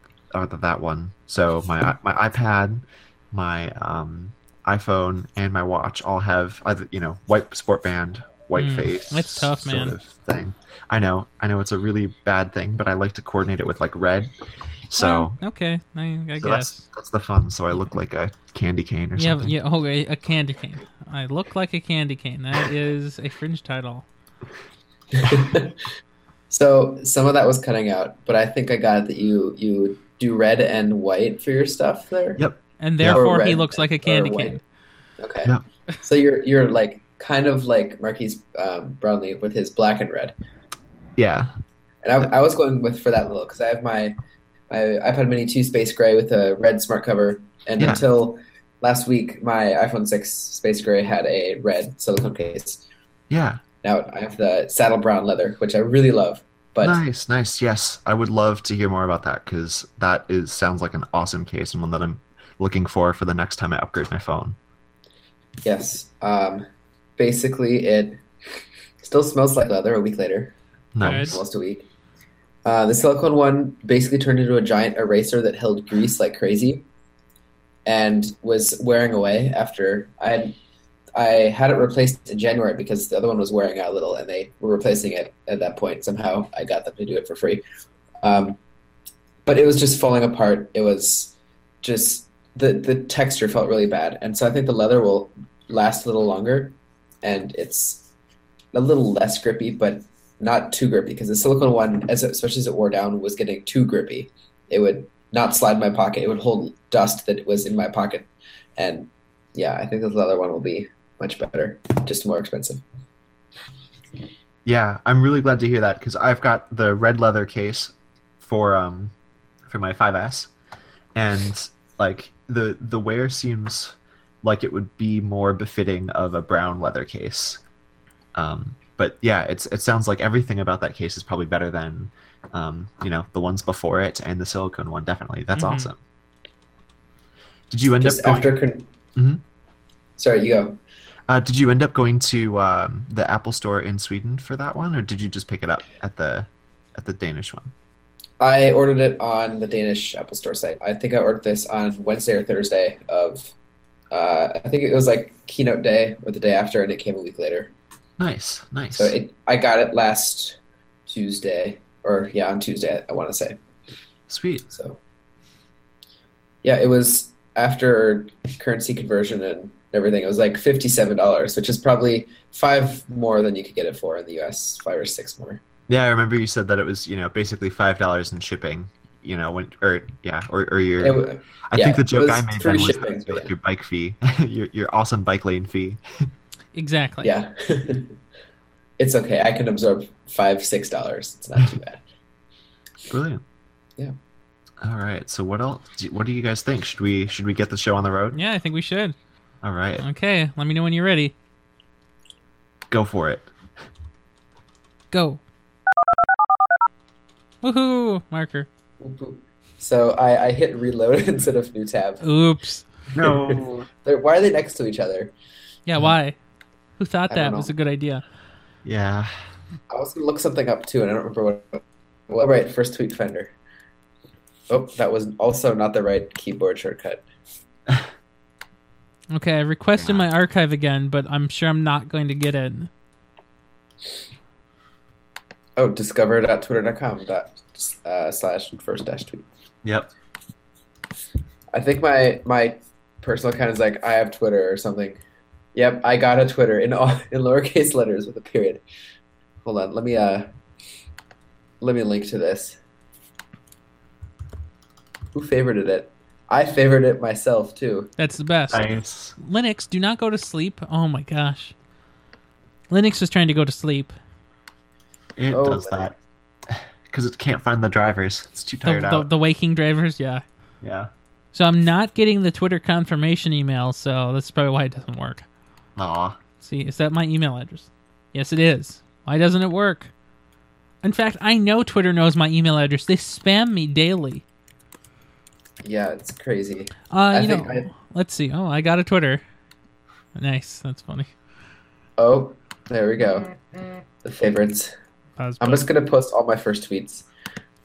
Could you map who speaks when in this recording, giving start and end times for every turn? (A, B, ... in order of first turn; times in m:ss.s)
0:00.3-0:14.3 A
0:08.6-0:10.0 B
0:14.9-0:15.4 A
0:15.0-0:16.8 B
0:16.4-0:19.5 A
0:19.2-0:24.0 B
0:25.1-0:25.8 C
0:26.5-0:32.4 C
0:32.4-0:33.2 A
0:32.8-0:34.6 B
0:33.0-0:34.6 C
0:35.2-0:40.3 C
0:41.2-0:41.5 A
0:42.0-0:44.2 C
0:44.7-0:52.8 C
0:47.8-0:48.0 A
0:53.3-0:53.6 A
0:53.8-0:57.0 C
0:56.8-1:04.6 A
1:05.6-1:06.6 C
1:07.2-1:08.2 C
1:09.0-1:11.9 C
1:10.9-1:11.4 A
1:11.0-1:11.4 B
1:12.6-1:16.8 C
1:17.8-1:20.6 C
1:21.1-1:27.6 C
1:28.2-1:28.6 C
1:29.4-1:38.1 C
1:38.7-1:52.8 C
1:54.6-1:59.1 A
1:59.7-2:00.5 A
2:01.1-2:07.6 A
2:08.4-2:16.0 A
2:15.5-2:15.9 B
2:17.7-2:18.5 A
2:18.0-2:18.9 C
2:19.1-2:19.4 A
2:20.2-2:20.8 C
2:21.3-2:27.7 A
2:28.4-2:33.5 C
2:34.1-2:37.7 C
2:38.2-2:39.1 A
2:38.9-2:43.6 C
2:44.3-2:44.7 A
2:44.7-2:45.0 C
2:46.6-2:55.6 C
2:55.9-3:06.0 A
3:01.0-3:03.5 C
3:06.7-3:07.3 B
3:07.2-3:08.1 C
3:09.0-3:12.0 C
3:13.1-3:13.4 A
3:14.8-3:18.4 A
3:18.3-3:19.1 B
3:19.6-3:20.0 A
3:20.0-3:21.3 B
3:22.9-3:23.5 A
3:25.1-3:25.4 B
3:27.6-3:28.7 B
3:29.0-3:32.2 C
3:32.2-3:32.8 B
3:33.1-3:33.9 A
3:33.2-3:35.3 C
3:35.8-3:36.4 B
3:37.0-3:38.2 B
3:37.3-3:37.7 C
3:38.8-3:39.3 A
3:39.9-3:43.5 C
3:44.7-3:47.2 C
3:49.3-3:52.9 B
3:50.0-3:50.2 A
3:55.8-3:59.4 C
3:59.8-4:00.1 A
4:01.7-4:05.2 C
4:05.7-4:08.8 C
4:09.6-4:10.5 C
4:11.8-4:12.8 C
4:15.3-4:18.1 C
4:18.2-4:18.8 B
4:18.7-4:19.4 A
4:19.4-4:21.7 B
4:22.9-4:24.1 B
4:25.4-4:26.2 A
4:25.5-4:26.1 C
4:26.7-4:29.3 A
4:28.8-4:30.4 B
4:30.8-4:31.1 A
4:31.5-4:35.4 B
4:36.0-4:36.4 A
4:36.6-4:40.1 B
4:41.0-4:44.4 B
4:45.8-4:47.9 C
4:47.1-4:49.4 B
4:50.4-4:51.3 B
4:52.2-4:53.6 C
4:54.2-4:54.9 C
4:55.4-4:55.8 B
4:55.6-4:57.2 C